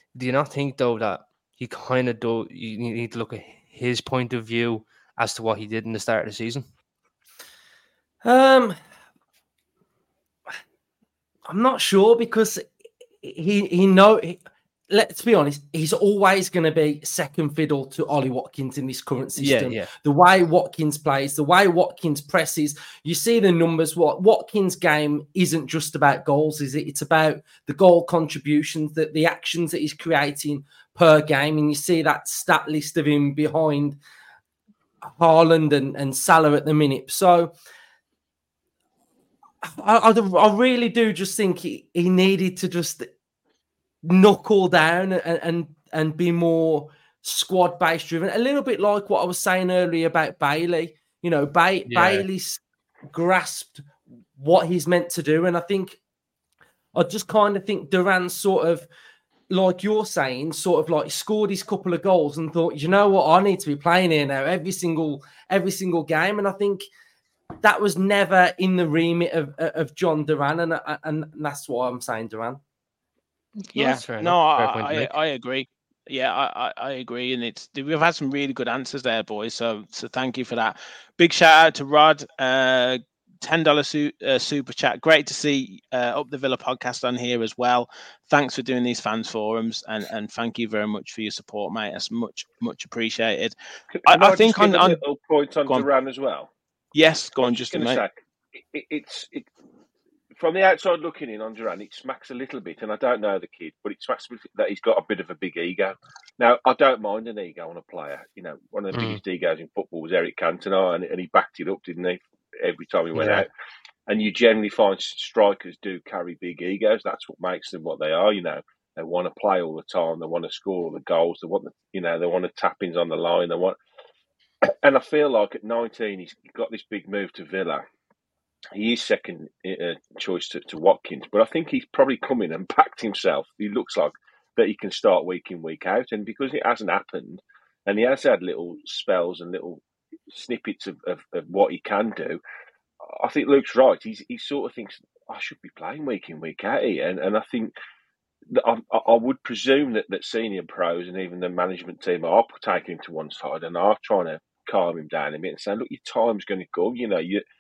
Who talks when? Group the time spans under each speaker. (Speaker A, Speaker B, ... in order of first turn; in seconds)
Speaker A: 0.1-6.6, 19.4-19.9, 51.9-52.2, 73.7-75.1, 108.9-109.2, 113.1-113.5
Speaker B: 8.2-8.8, 11.5-12.7, 13.2-34.0, 35.0-37.5, 39.6-43.1, 44.0-56.0, 57.0-58.9, 59.5-66.9, 67.6-72.6
Speaker C: 73.7-93.5, 94.1-95.0, 96.9-98.0
Speaker D: 94.0-96.5, 97.4-99.5, 100.4-113.5, 114.1-123.8, 124.6-127.8, 128.7-142.4, 143.2-147.7, 148.5-157.4